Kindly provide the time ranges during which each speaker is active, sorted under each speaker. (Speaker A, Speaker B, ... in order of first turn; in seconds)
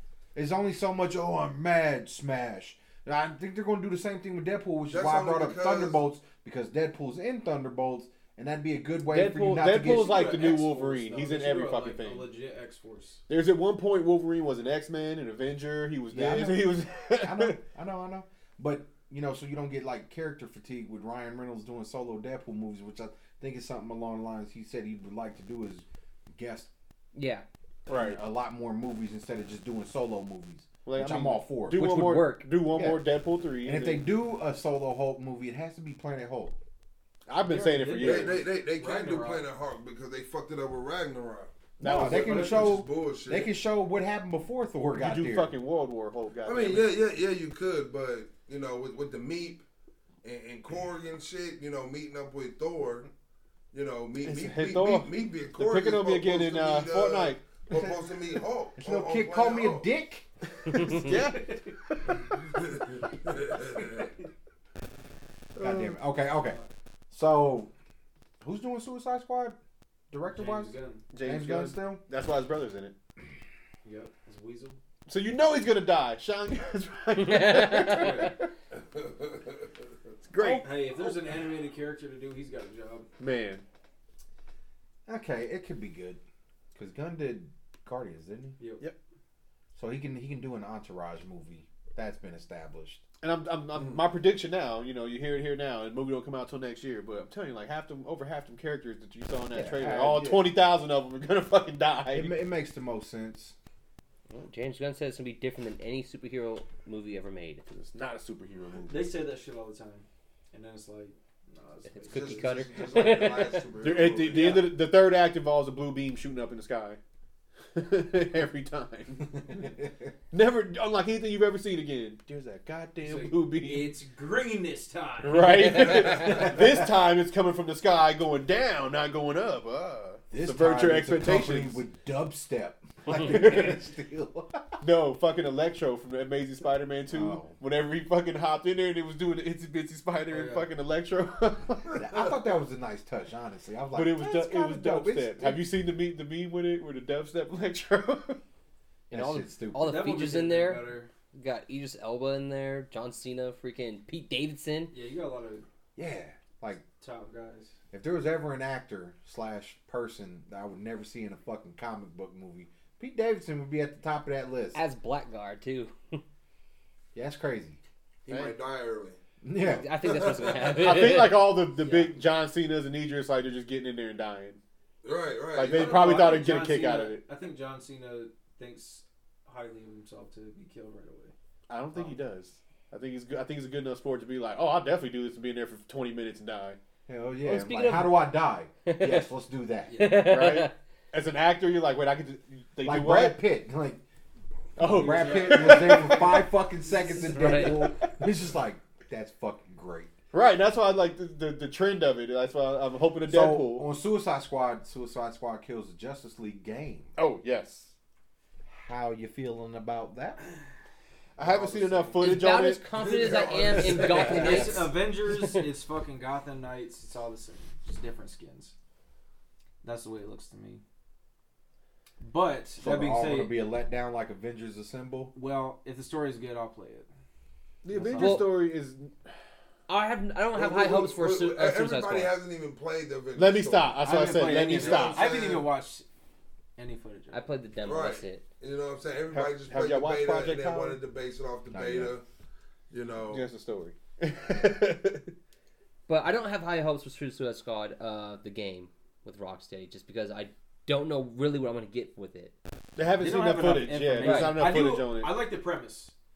Speaker A: 0.3-10.2, 16.1-26.7, 27.9-31.9, 32.7-33.0, 33.6-36.6, 41.8-45.5, 58.8-60.3, 65.6-66.6, 67.1-67.7, 68.4-69.6, 70.1-72.0, 85.1-86.2, 86.7-88.6, 89.8-93.0, 99.5-100.5, 102.1-103.5, 119.5-120.1, 130.3-134.8, 137.1-137.6, 142.0-145.6, 149.1-150.1, 156.0-156.8, 157.9-164.8, 167.2-167.8, 169.4-169.9, 187.1-189.9, 192.8-194.0, 194.8-200.1, 203.2-207.2, 208.7-210.4, 222.8-225.3, 241.7-242.1
Speaker B: 4.9-6.0, 38.0-43.5, 46.4-49.6, 50.2-53.1, 53.7-59.9, 62.5-64.1, 79.0-79.5, 112.1-114.7, 168.3-169.2, 170.0-170.6, 175.0-176.4, 213.0-214.8, 230.5-235.7, 237.8-242.2, 242.9-243.5
Speaker C: 9.1-12.3, 13.3-17.6, 27.9-28.2, 30.9-34.0, 37.3-38.4, 41.8-42.7, 44.9-46.9, 54.2-57.5, 60.6-62.2, 65.6-66.0, 71.1-73.0, 75.1-78.5, 80.3-80.8, 83.2-83.6, 93.2-102.3, 107.7-109.2, 113.8-117.0, 117.7-119.7, 120.3-123.9, 125.2-131.8, 133.1-133.8, 134.8-142.2, 143.9-148.4, 149.1-149.5, 168.3-168.6, 170.6-174.6, 175.6-177.2, 181.7-186.8, 190.2-193.4, 194.8-196.4, 200.3-203.9, 207.2-207.9, 211.4-212.8, 227.8-229.2, 233.3-235.6, 239.3-241.0, 243.3-245.3, 253.0-255.4
Speaker D: 9.7-13.2, 37.4-39.5, 42.3-42.8, 61.1-61.7, 66.3-66.7, 70.3-71.1, 73.8-74.8, 77.9-78.4, 80.6-83.1, 108.9-112.5, 114.3-114.7, 123.0-126.5, 140.3-140.7, 149.8-151.1, 154.9-155.7, 157.0-157.7, 171.8-172.1, 175.7-181.3, 189.9-190.3, 194.8-197.8, 211.5-212.2, 213.1-218.7, 219.8-220.8, 222.2-223.6, 225.3-227.1, 227.9-228.5, 234.0-236.1, 236.8-237.5, 253.2-256.1
Speaker E: 27.1-27.4, 31.7-32.5, 77.1-78.3, 80.4-80.7, 104.3-107.6, 111.9-113.6, 125.6-126.2, 149.7-154.9, 164.7-166.2, 169.6-171.7, 187.4-188.3, 188.8-189.3, 189.9-190.7, 197.3-197.8, 212.2-215.6, 228.2-228.5, 229.9-232.3, 237.3-238.4, 246.1-252.5, 254.2-254.6